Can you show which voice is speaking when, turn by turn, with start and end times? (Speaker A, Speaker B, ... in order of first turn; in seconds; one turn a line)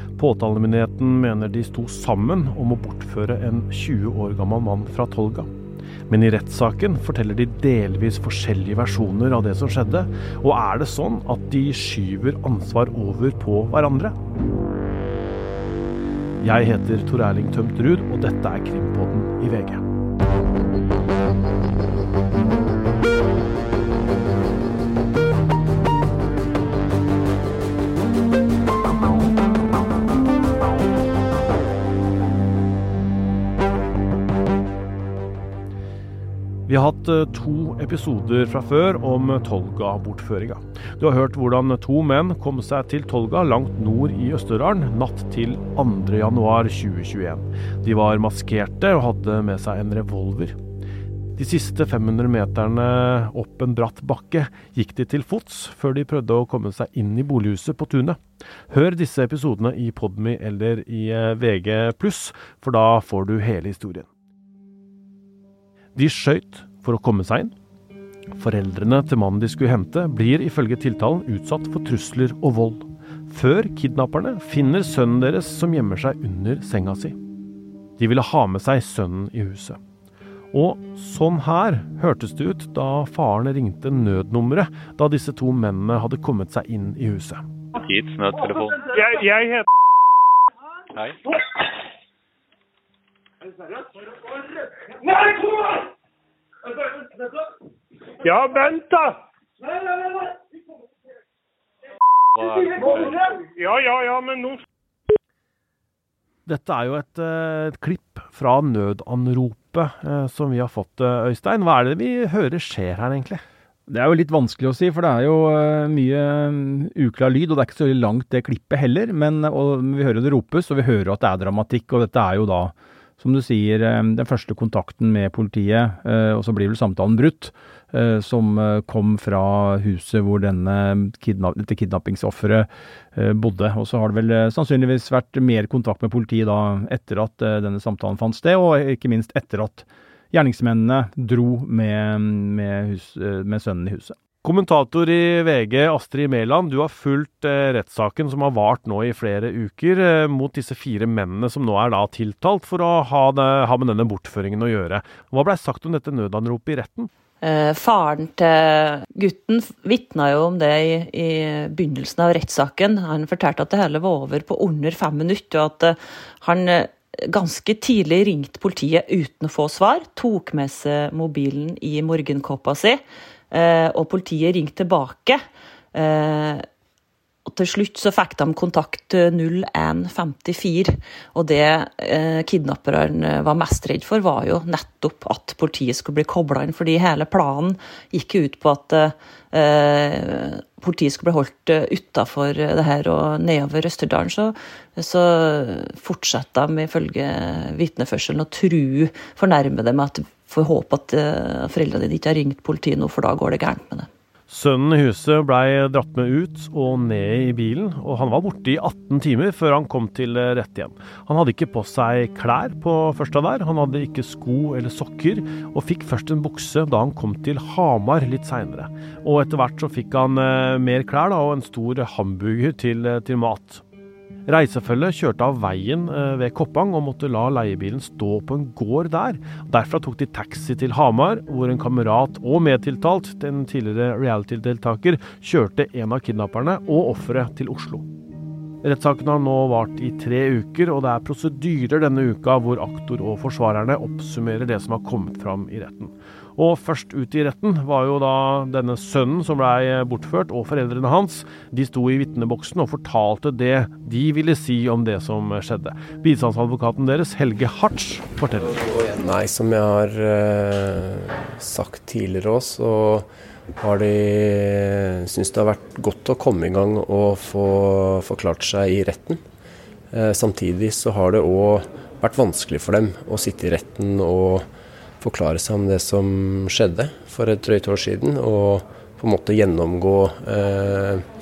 Speaker A: 0.2-5.5
Speaker A: 6.1-14.2
Speaker A: 16.4-19.8
Speaker A: 36.7-50.6
Speaker A: 51.4-64.1
Speaker A: 66.0-67.5
Speaker A: 68.3-77.2
Speaker A: 78.0-79.8
Speaker A: 80.5-87.4
Speaker B: 87.8-88.9
Speaker C: 88.8-89.7
Speaker C: 98.2-99.2
Speaker B: 102.4-103.2
Speaker C: 102.8-104.6
Speaker A: 106.5-113.4
Speaker D: 113.9-144.2
Speaker A: 144.4-157.1
Speaker E: 157.4-175.4
Speaker E: 175.9-176.7
Speaker E: 177.5-204.1
Speaker A: 204.5-223.8
Speaker A: 224.5-238.1
Speaker A: 238.8-258.8
Speaker F: 259.1-269.4
Speaker F: 270.1-274.7
Speaker F: 275.2-281.3